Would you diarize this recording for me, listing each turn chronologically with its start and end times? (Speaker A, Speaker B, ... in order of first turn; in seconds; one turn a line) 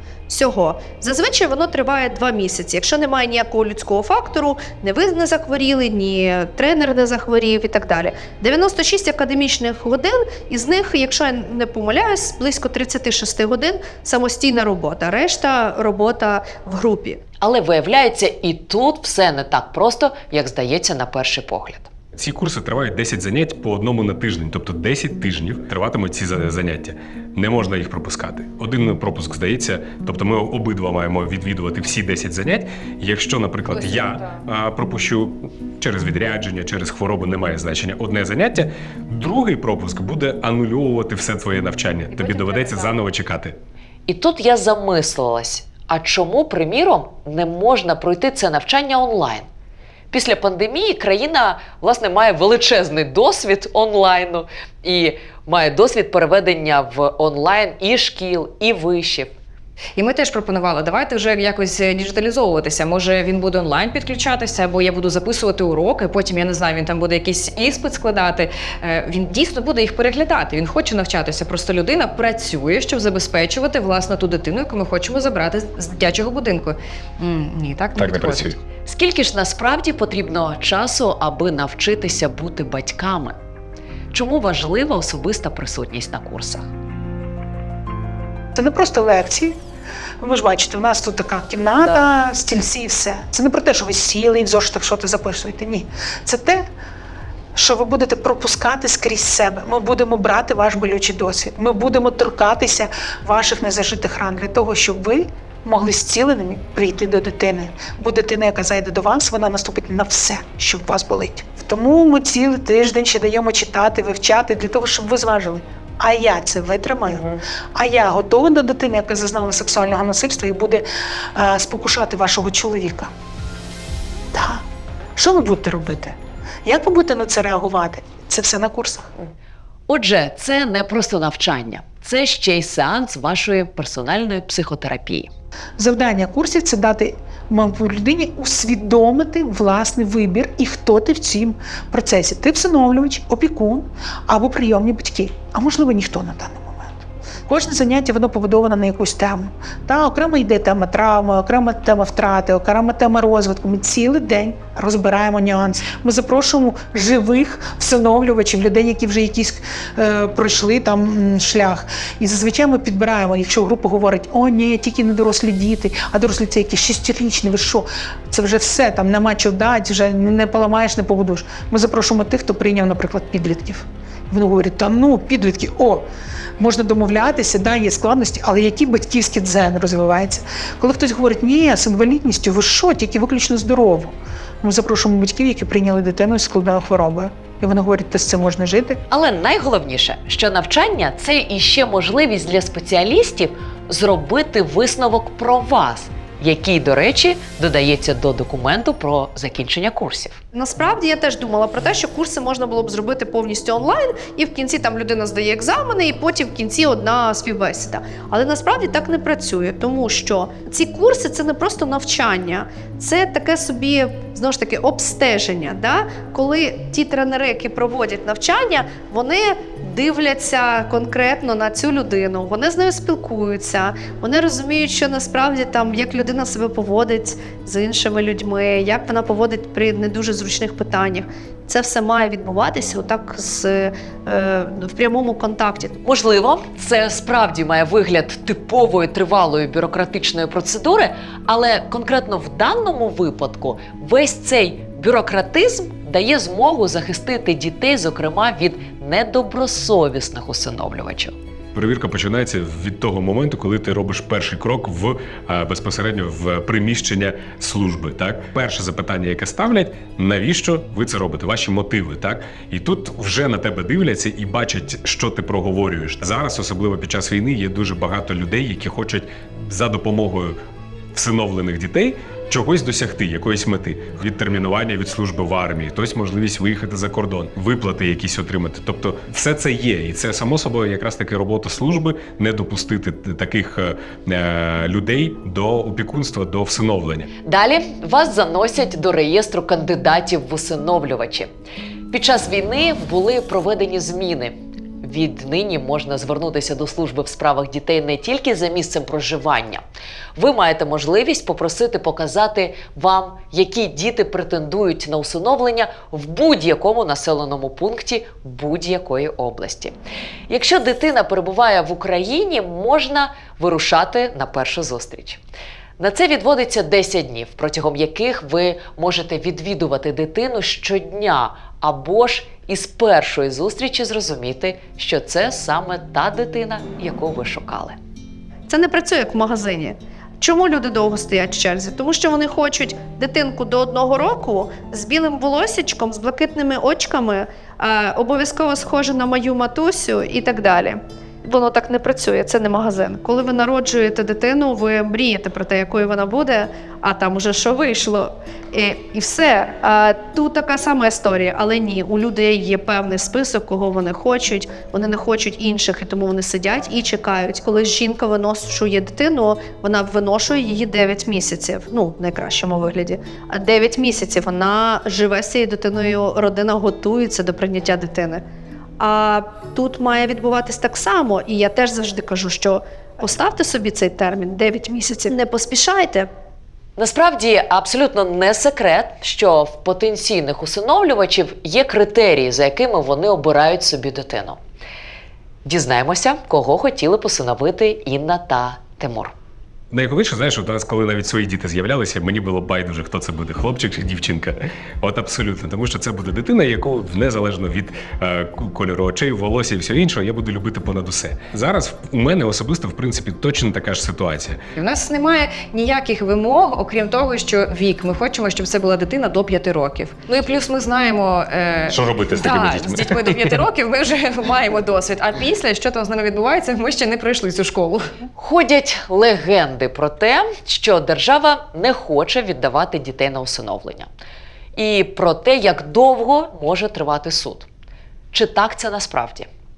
Speaker A: 0.3-17.2
Speaker B: 17.4-21.9
Speaker C: 22.2-43.6
Speaker B: 44.1-49.5
Speaker B: 50.1-59.4
Speaker D: 60.0-78.5
Speaker C: 78.0-78.6
Speaker B: 78.9-83.4
Speaker B: 84.1-86.7
Speaker E: 88.5-89.6
Speaker E: 90.2-96.7
Speaker E: 97.5-123.1
Speaker E: 124.3-124.6
Speaker E: 125.2-129.1
Speaker B: 129.9-135.3
Speaker E: 135.8-176.1
Speaker E: 176.6-189.0
Speaker B: 189.1-200.4
Speaker A: 200.5-236.0
Speaker B: 236.0-251.3
Speaker C: 251.7-270.6
Speaker C: 271.1-287.3
Speaker B: 287.4-291.5
Speaker B: 292.1-299.8
Speaker B: 300.4-309.9
Speaker B: 310.5-315.4
Speaker B: 316.0-328.0
Speaker A: 328.7-368.4
Speaker A: 369.0-376.3
Speaker B: 377.0-384.6
Speaker B: 385.7-389.4
Speaker C: 389.9-404.6
Speaker D: 404.8-418.1
Speaker C: 411.9-413.6
Speaker B: 418.4-424.1
Speaker B: 424.8-427.7
Speaker B: 428.3-429.5